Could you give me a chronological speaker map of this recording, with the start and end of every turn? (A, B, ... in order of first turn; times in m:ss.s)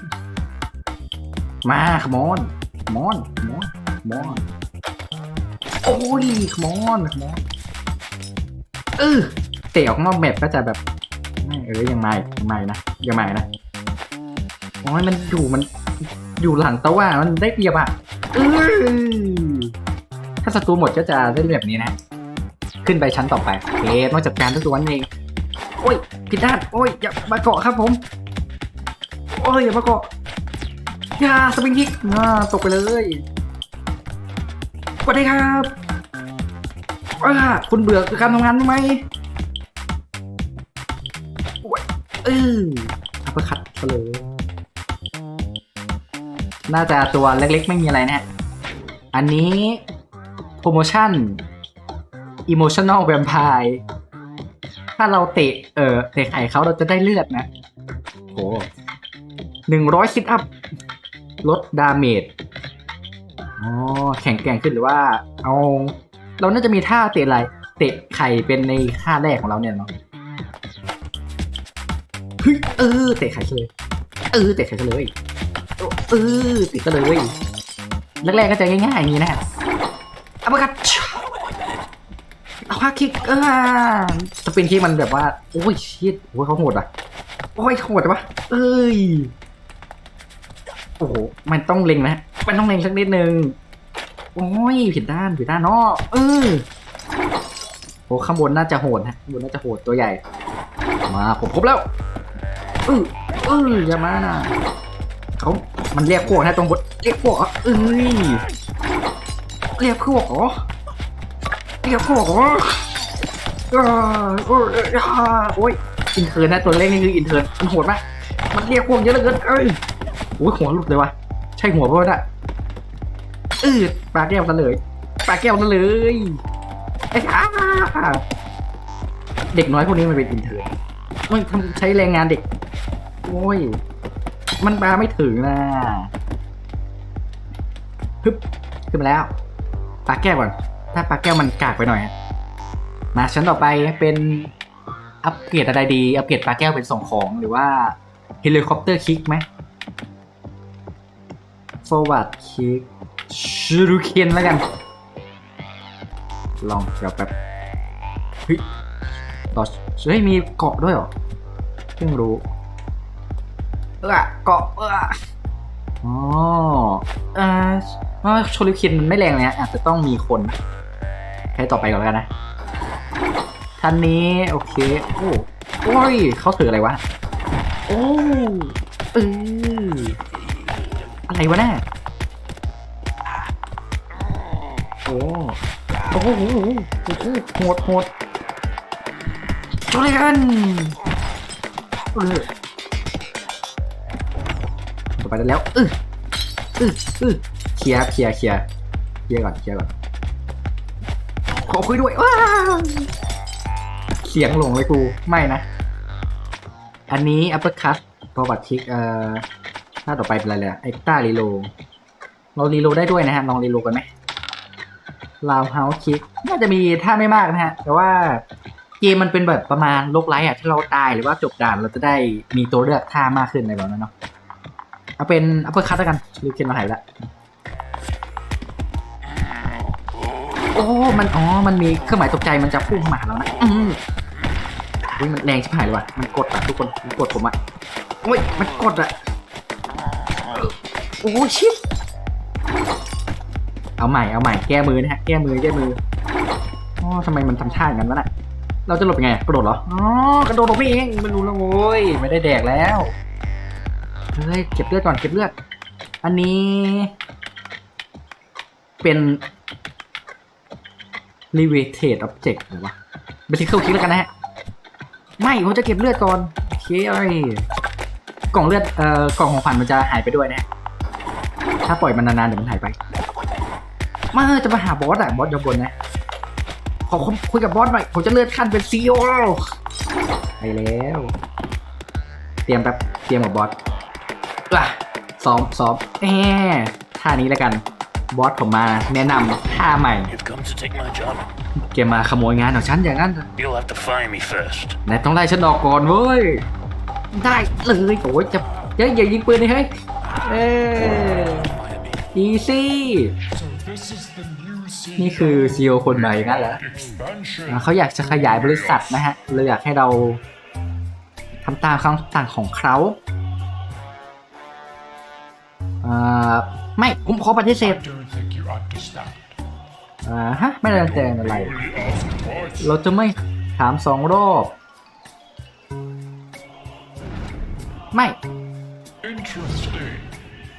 0:01.6-0:04.4 A
0:05.8-0:07.4 A
0:09.0-0:10.8 A
0:11.4-0:13.5 A
0:14.8-0:19.7 A
0:20.4-0:22.0 A
0:22.8-0:25.1 A
0:25.8-0:28.0 A
0:29.3-0:30.1 A
0:31.2-0:33.2 A
0:35.0-0:35.7 A
0:37.2-0:39.0 A
0:41.6-0:44.3 A
0:46.7-0:48.2 A
0:49.1-0:49.8 A
0:50.6-0:51.4 A
0:52.5-0:53.8 A
0:55.0-0:57.5 A
0:58.3-0:58.7 A
0:59.7-1:00.5 A
1:01.4-1:02.3 A
1:03.6-1:09.9 A
1:12.4-1:13.7 A
1:14.3-1:15.1 A
1:15.8-1:17.3 A
1:18.2-1:19.4 A
1:20.4-1:21.3 A
1:22.7-1:26.9 A
1:27.6-1:29.3 A
1:31.0-1:33.6 A
1:34.4-1:36.7 A
1:38.1-1:40.2 A
1:41.1-1:41.9 A
1:42.9-1:44.6 A
1:45.4-1:48.5 A
1:49.8-1:50.7 A
1:51.8-1:52.9 A
1:53.7-1:59.8 A
2:00.4-2:02.2 A
2:03.6-2:06.4 A
2:07.1-2:08.2 A
2:09.5-2:10.7 A
2:11.3-2:12.4 A
2:13.2-2:13.8 A
2:14.6-2:16.1 A
2:18.2-2:19.3 A
2:20.1-2:22.1 A
2:23.1-2:24.5 A
2:25.2-2:29.5 A
2:31.8-2:34.6 A
2:36.6-2:37.3 A
2:39.5-2:41.1 A
2:42.0-2:42.5 A
2:44.0-2:45.2 A
2:46.0-2:50.6 A
2:51.6-2:52.3 A
2:53.8-2:57.0 A
2:57.9-3:00.2 A
3:01.3-3:01.8 A
3:05.1-3:05.6 A
3:06.1-3:08.1 A
3:09.9-3:11.0 A
3:12.1-3:12.5 A
3:15.2-3:16.0 A
3:16.8-3:18.7 A
3:19.3-3:19.9 A
3:21.7-3:23.1 A
3:24.2-3:25.6 A
3:27.1-3:29.4 A
3:30.1-3:31.7 A
3:32.6-3:34.1 A
3:35.4-3:38.4 A
3:39.0-3:44.1 A
3:45.2-3:47.3 A
3:50.8-3:54.0 A
3:55.1-3:57.6 A
3:58.2-3:59.1 A
4:00.5-4:01.8 A
4:04.0-4:06.0 A
4:07.0-4:08.3 A
4:08.9-4:13.2 A
4:14.4-4:15.5 A
4:16.2-4:17.2 A
4:19.0-4:19.4 A
4:21.5-4:22.9 A
4:23.5-4:24.3 A
4:25.4-4:27.7 A
4:28.5-4:30.7 A
4:31.8-4:33.0 A
4:34.3-4:35.9 A
4:37.1-4:39.6 A
4:40.6-4:41.3 A
4:42.7-4:43.8 A
4:44.7-4:50.3 A
4:50.3-4:51.5 B
4:51.8-4:53.5 A
4:53.6-4:55.0 B
4:55.1-4:56.7 A
4:57.3-4:59.9 A
5:00.4-5:01.7 A
5:01.5-5:02.2 B
5:02.3-5:03.3 A
5:03.5-5:09.3 C
5:05.2-5:06.8 A
5:07.7-5:10.4 A
5:11.6-5:13.2 A
5:16.0-5:18.0 A
5:17.8-5:19.6 C
5:20.2-5:21.8 A
5:20.9-5:22.9 C
5:22.8-5:24.8 A
5:28.1-5:28.4 A
5:29.2-5:30.3 C